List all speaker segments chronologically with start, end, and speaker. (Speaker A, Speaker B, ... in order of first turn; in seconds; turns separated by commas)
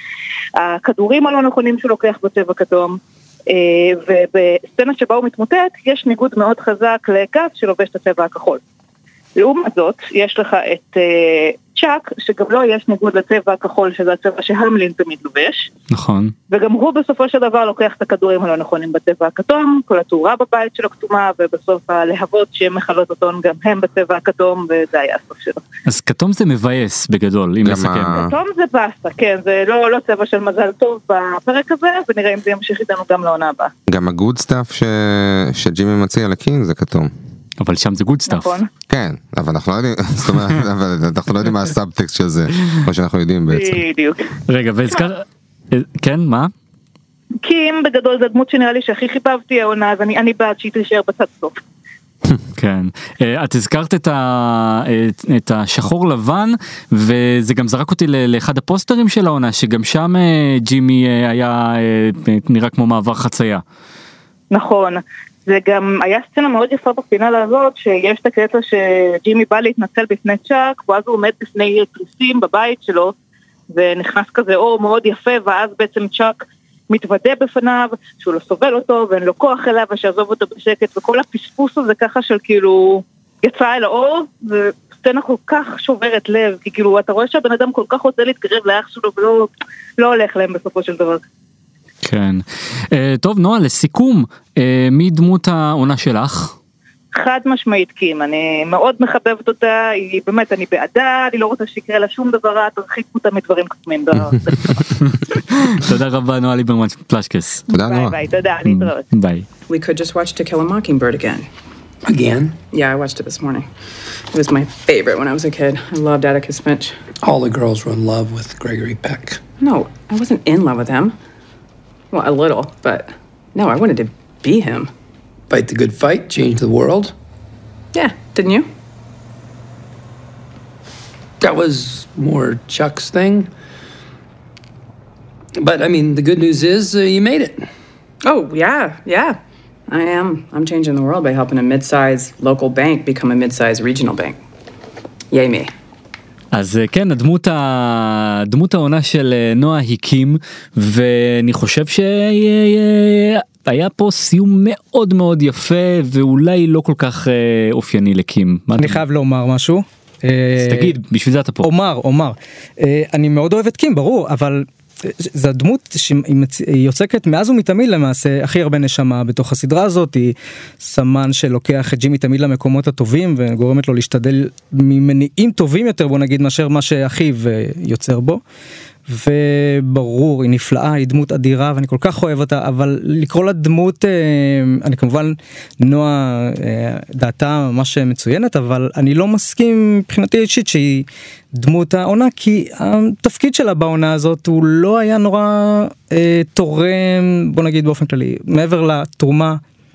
Speaker A: 0.6-8.6, Speaker A: 9.3-15.7, Speaker B: 15.9-16.3, Speaker A: 16.5-25.6, Speaker B: 25.9-28.2, Speaker C: 27.6-28.3, Speaker A: 28.1-33.7, Speaker C: 33.9-37.1, Speaker B: 37.6-38.5, Speaker A: 38.3-38.7, Speaker C: 38.9-43.8, Speaker A: 43.5-44.3, Speaker B: 44.5-46.5, Speaker A: 47.4-51.6, Speaker B: 52.5-63.6, Speaker A: 64.5-73.1, Speaker A: 73.7-76.4, Speaker A: 76.9-91.2, Speaker B: 92.0-96.5, Speaker A: 97.1-104.9, Speaker B: 105.0-107.6, Speaker C: 107.7-108.2, Speaker A: 107.7-109.0, Speaker B: 108.7-109.5, Speaker D: 109.7-111.5, Speaker E: 112.0-112.6, Speaker D: 112.7-113.7, Speaker D: 114.3-117.0, Speaker E: 117.2-119.4, Speaker D: 119.6-121.2, Speaker D: 122.1-124.9, Speaker E: 125.5-127.1, Speaker D: 127.9-128.7, Speaker E: 131.4-133.5, Speaker E: 135.6-137.7, Speaker D: 138.2-144.4, Speaker D: 145.3-145.7, Speaker B: 146.5-159.0, Speaker F: 158.8-160.9, Speaker B: 160.6-161.7, Speaker F: 161.6-178.4, Speaker F: 179.1-199.6